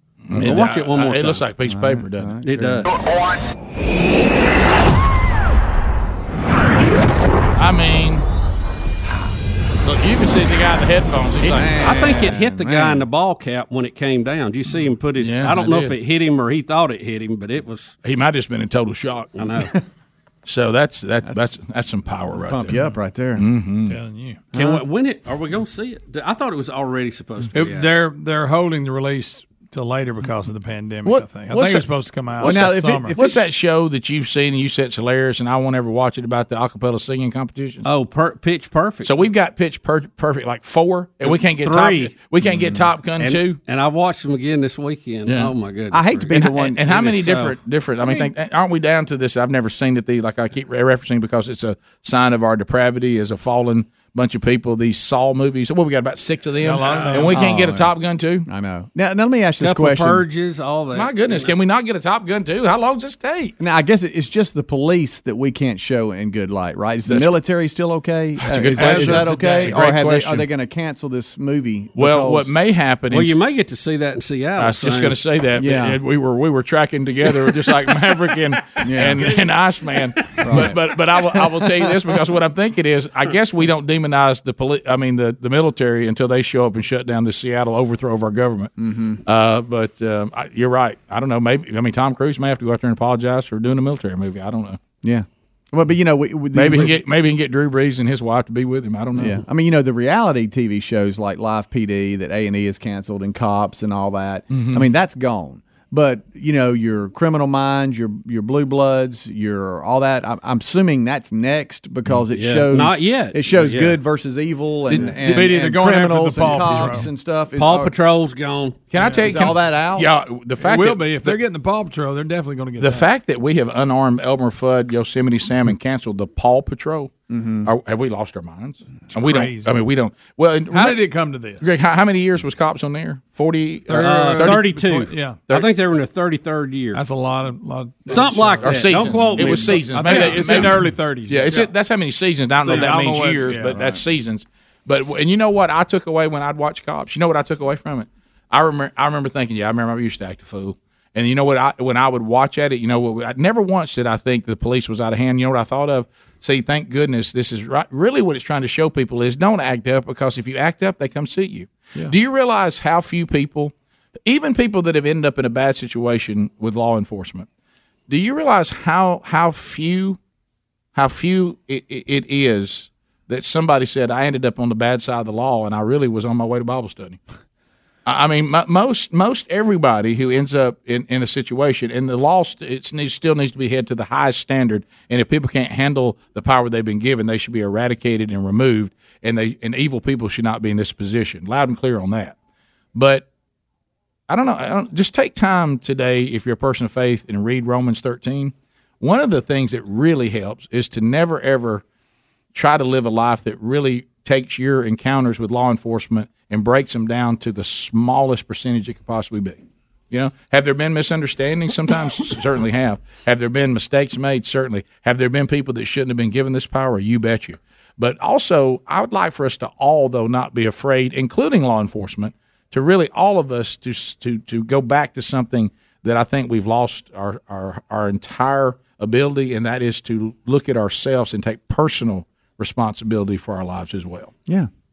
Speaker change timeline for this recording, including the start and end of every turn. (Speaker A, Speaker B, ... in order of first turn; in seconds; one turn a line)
Speaker A: 0.2-2.6
Speaker B: 0.3-1.4
Speaker C: 1.6-2.8
Speaker B: 2.4-2.9
Speaker A: 7.5-8.2
Speaker A: 9.8-11.8
Speaker C: 11.4-13.0
Speaker B: 11.8-17.9
Speaker A: 15.2-15.9
Speaker A: 18.0-19.4
Speaker B: 19.4-19.7
Speaker A: 20.4-22.8
Speaker C: 21.2-21.5
Speaker C: 22.4-23.4
Speaker A: 23.4-24.0
Speaker D: 23.9-24.4
Speaker C: 24.5-24.8
Speaker B: 24.5-27.9
Speaker D: 27.5-33.1
Speaker A: 31.0-37.9
Speaker C: 32.4-33.4
Speaker B: 37.8-39.3
Speaker A: 39.0-43.6
Speaker B: 41.2-42.1
Speaker C: 42.4-42.9
Speaker B: 43.2-46.4
Speaker A: 45.3-45.5
Speaker C: 45.9-47.1
Speaker A: 46.3-58.5
Speaker D: 56.6-57.4
Speaker C: 57.1-57.9
Speaker C: 58.4-60.2
Speaker B: 59.6-61.5
Speaker A: 60.9-63.5
Speaker C: 63.6-72.5
Speaker A: 67.0-67.3
Speaker A: 68.4-70.5
Speaker D: 68.8-69.7
Speaker A: 72.0-73.4
Speaker B: 73.1-75.2
Speaker A: 74.6-88.7
Speaker C: 75.6-76.0
Speaker C: 78.8-79.4
Speaker C: 80.4-80.8
Speaker C: 88.8-89.2
Speaker A: 89.2-94.8
Speaker C: 95.0-97.0
Speaker A: 96.5-99.4
Speaker C: 99.1-117.9
Speaker A: 104.5-104.8
Speaker B: 112.3-114.0
Speaker A: 114.9-115.1
Speaker D: 115.1-117.1
Speaker B: 117.5-118.8
Speaker A: 118.9-121.4
Speaker D: 119.0-119.3
Speaker C: 119.2-120.1
Speaker D: 120.6-123.1
Speaker A: 122.8-127.1
Speaker C: 127.3-127.7
Speaker A: 127.6-131.1
Speaker D: 129.1-129.8
Speaker D: 130.7-131.7
Speaker A: 131.6-134.9
Speaker D: 133.9-135.4
Speaker B: 134.0-137.0
Speaker D: 136.9-141.7
Speaker B: 138.1-140.6
Speaker A: 138.6-163.7
Speaker D: 142.6-144.0
Speaker A: 164.2-167.5
Speaker A: 168.1-170.2
Speaker A: 170.9-177.2
Speaker A: 178.1-192.3
Speaker A: 192.9-193.2
Speaker A: 194.3-201.8
Speaker A: 202.5-209.6
Speaker A: 210.1-234.3